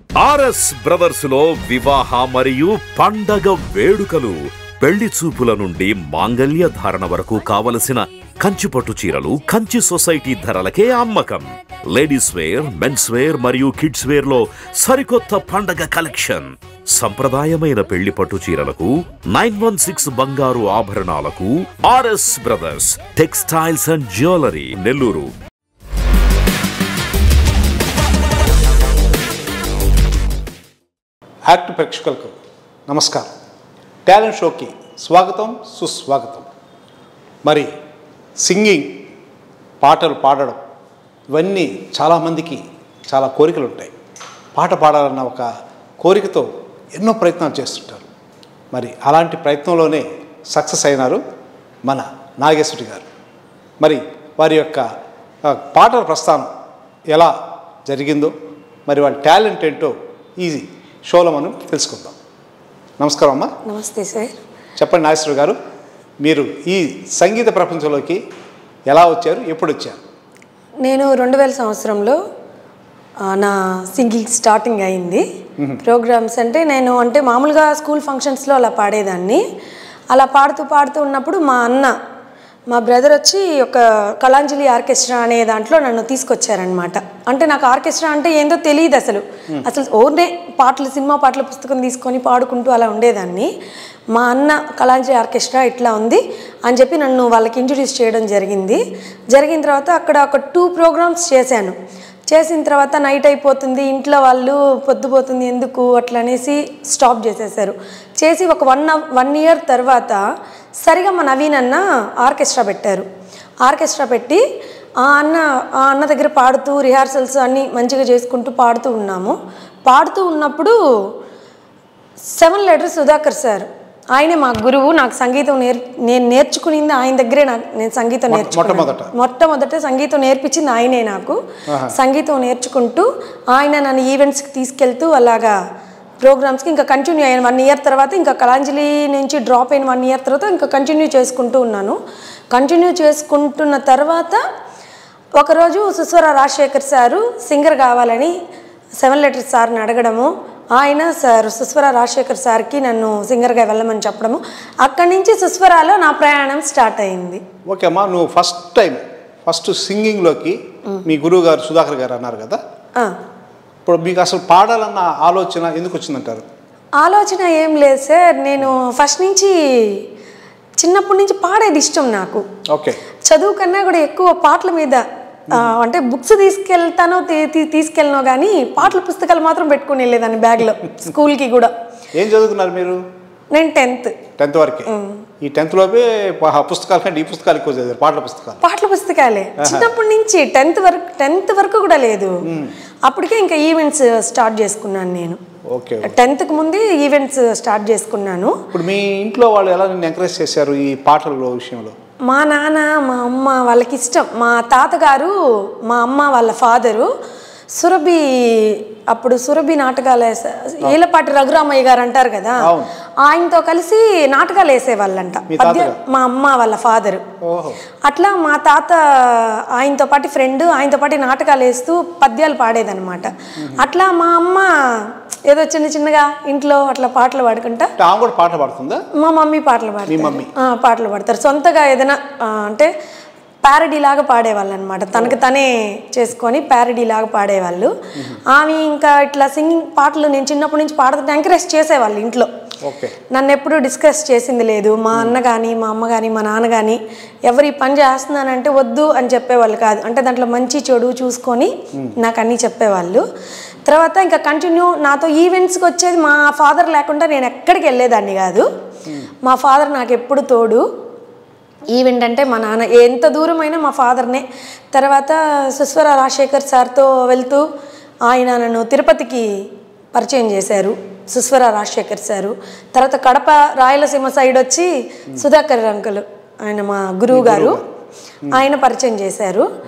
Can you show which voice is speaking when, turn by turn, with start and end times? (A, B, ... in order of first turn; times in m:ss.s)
0:00.2-0:25.3 A
0:31.5-0:32.3 B
0:32.9-0:33.3 B
0:34.0-0:36.5 B
0:37.4-0:37.7 B
0:38.4-0:39.0 B
0:39.8-0:40.6 B
0:41.3-0:43.9 B
0:44.5-0:48.0 B
0:48.7-0:51.2 B
0:51.8-0:53.0 B
0:53.8-0:54.9 B
0:55.4-0:56.5 B
0:57.1-0:58.3 B
0:58.9-1:02.1 B
1:03.0-1:03.5 B
1:03.6-1:04.3 C
1:04.8-1:05.6 B
1:06.2-1:08.2 B
1:08.9-1:10.0 B
1:10.8-1:12.2 C
1:13.2-1:15.2 C
1:15.8-1:19.4 C
1:20.1-1:21.9 C
1:22.7-1:33.5 C
1:34.1-1:41.8 C
1:42.3-1:50.2 C
1:50.8-1:53.0 C
1:53.6-1:54.4 C
1:55.0-2:00.8 C
2:02.3-2:11.4 C
2:08.3-2:09.1 B
2:11.9-2:15.6 C
2:16.2-2:22.0 C
2:22.5-2:24.4 C
2:25.4-2:28.3 C
2:29.0-2:37.4 C
2:37.6-2:42.6 B
2:43.8-2:46.4 B
2:47.0-2:50.0 C
2:50.8-2:52.4 C
2:52.7-2:53.0 B
2:53.2-3:01.7 C
3:02.1-3:03.0 B
3:03.5-3:04.2 C
3:04.4-3:08.6 B
3:04.9-3:05.2 C
3:08.6-3:12.4 C
3:09.6-3:09.9 B
3:12.4-3:12.7 B
3:13.0-3:15.4 C
3:15.7-3:16.2 B
3:16.0-3:18.6 C
3:18.7-3:21.9 B
3:22.3-3:27.1 C
3:27.7-3:37.2 C
3:32.6-3:32.9 B
3:35.5-3:36.0 B
3:37.4-3:37.8 B
3:38.0-3:47.9 C
3:43.6-3:43.8 B
3:48.0-3:49.0 B
3:49.2-3:52.9 C
3:50.1-3:50.5 B
3:53.6-3:57.9 C
3:58.5-4:02.5 C
4:02.8-4:03.2 B
4:03.3-4:13.2 C
4:13.8-4:18.7 C
4:19.4-4:20.8 C
4:21.9-4:27.6 C
4:28.2-4:29.5 C
4:30.1-4:37.8 C
4:37.3-4:37.9 B
4:38.5-4:39.7 C